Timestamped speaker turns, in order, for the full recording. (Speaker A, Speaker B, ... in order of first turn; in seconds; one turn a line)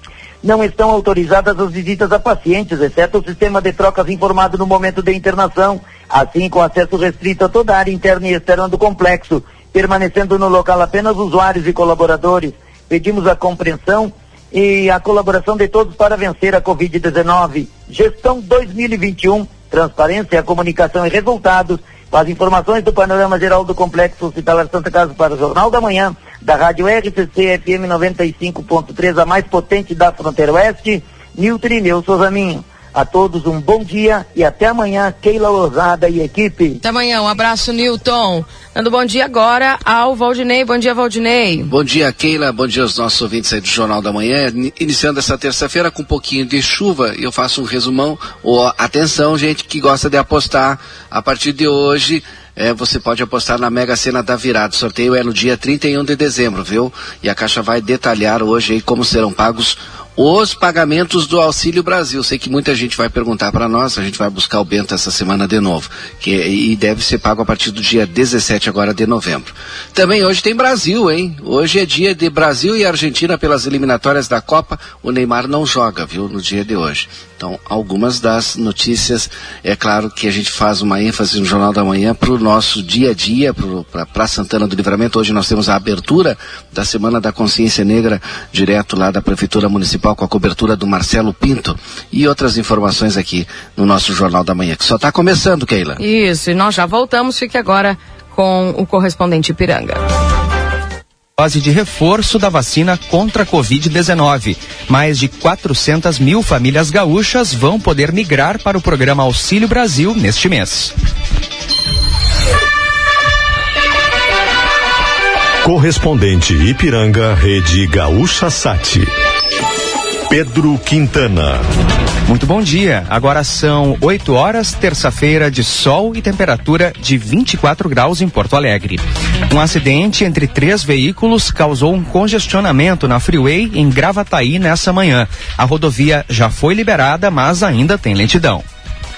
Speaker A: 0.4-36.8
Speaker B: 36.8-41.7
Speaker C: 41.7-96.0
Speaker B: 96.0-100.0
Speaker D: 101.4-110.9
Speaker E: 115.6-119.1
Speaker E: 120.3-121.7
Speaker D: 122.2-138.6